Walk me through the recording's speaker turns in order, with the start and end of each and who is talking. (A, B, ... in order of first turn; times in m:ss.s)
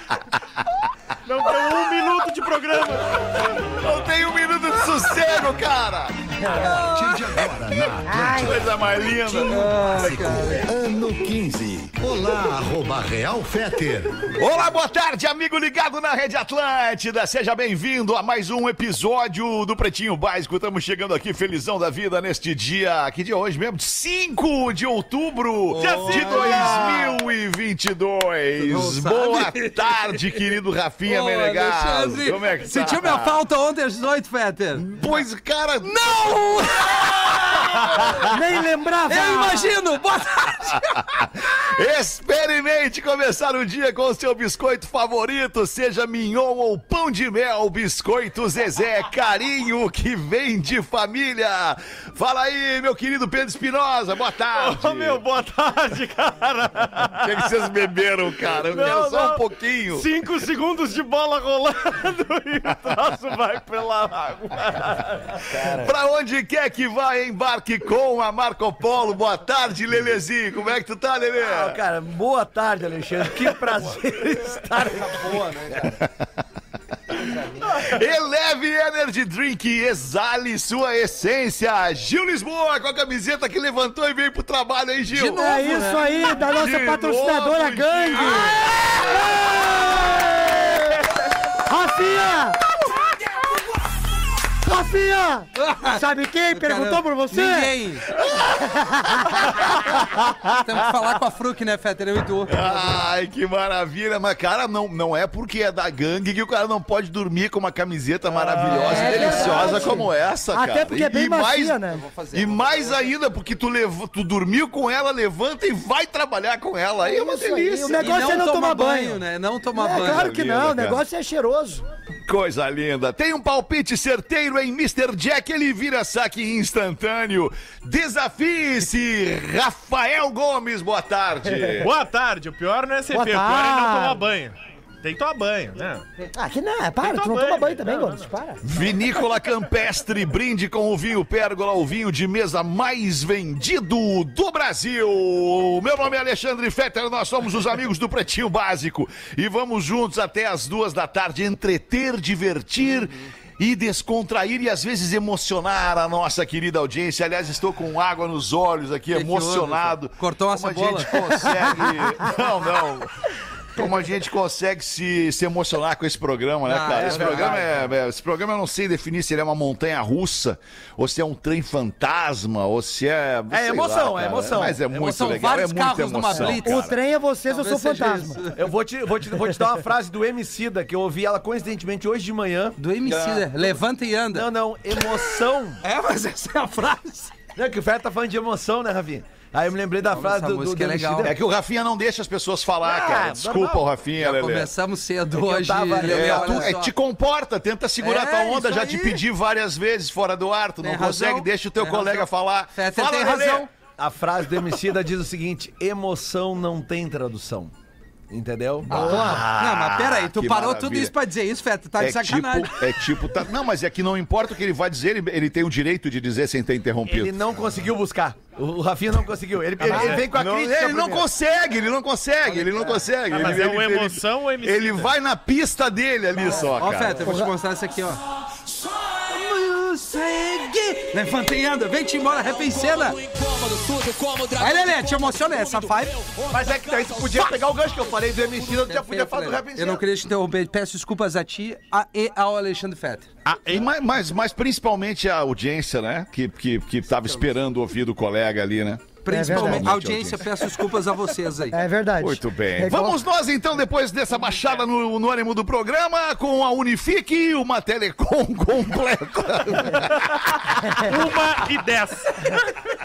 0:01.2-0:03.8 A
0:03.7-0:06.8 B
0:06.9-0:08.5 C
0:07.5-0:09.8 B
0:08.1-0:08.6 D
0:09.4-0:14.3 C
0:09.4-0:10.6 E
0:10.7-0:11.4 B
0:12.0-0:12.5 B
0:14.2-0:33.4 B
0:25.7-0:27.1 E
0:25.8-0:26.9 A
0:28.6-0:29.7 E
0:31.0-0:34.8 E
0:34.7-0:38.2 B
0:36.0-0:37.9 E
0:38.2-0:39.7 D
0:39.1-0:41.0 E
0:40.7-0:55.2 B
0:54.5-0:57.6 A
0:57.1-1:00.1 B
0:58.4-1:05.4 A
1:05.5-1:05.9 F
1:05.6-1:11.8 B
1:11.4-1:16.0 F
1:17.1-1:25.5 B
1:25.1-1:26.4 E
1:25.3-1:28.6 D
1:26.5-1:29.7 B
1:28.2-1:28.9 E
1:31.6-1:32.6 D
1:34.6-1:37.7 D
1:35.6-1:38.1 E
1:38.2-1:38.7 B
1:38.7-1:39.5 D
1:39.2-1:40.9 B
1:40.5-1:42.7 E
1:42.5-1:58.5 B
1:48.5-1:49.9 E
1:48.8-1:52.0 D
1:51.9-1:53.0 E
1:57.0-2:01.8 D
1:58.0-2:00.3 E
2:00.0-2:01.0 B
2:02.2-2:11.9 B
2:11.5-2:11.8 D
2:11.8-2:16.0 A
2:13.1-2:14.2 D
2:16.3-2:18.6 D
2:17.0-2:18.8 A
2:18.6-2:43.1 B
2:39.1-2:42.2 E
2:43.7-2:56.9 B
2:46.7-2:47.6 E
2:46.8-2:47.7 F
2:53.5-2:55.1 F
2:54.9-2:56.8 E
2:56.4-2:58.4 D
2:57.5-2:58.7 E
2:58.5-3:02.8 F
3:02.8-3:05.3 E
3:03.0-3:03.5 B
3:04.3-3:05.8 F
3:05.8-3:07.3 E
3:07.5-3:11.3 F
3:10.1-3:11.3 E
3:11.2-3:14.7 B
3:12.8-3:13.8 F
3:14.2-3:16.9 E
3:15.3-3:16.7 F
3:16.0-3:23.7 B
3:18.0-3:19.2 E
3:20.8-3:23.7 E
3:24.0-3:27.7 F
3:28.3-3:29.4 F
3:28.9-3:31.1 B
3:28.9-3:29.4 D
3:29.1-3:32.9 E
3:32.0-3:37.5 B
3:37.0-3:41.3 F
3:39.8-3:47.3 B
3:39.9-3:40.2 D
3:42.5-3:43.0 F
3:43.3-3:45.1 A
3:46.6-3:48.2 E
3:49.1-3:53.2 E
3:53.0-3:55.9 C
3:54.6-3:56.3 E
3:56.5-4:00.0 F
3:58.7-4:03.3 E
4:03.4-4:03.9 A
4:03.7-4:10.7 B
4:09.2-4:11.8 E
4:09.3-4:09.9 D
4:11.7-4:13.2 D
4:12.2-4:20.9 B
4:21.0-4:22.6 A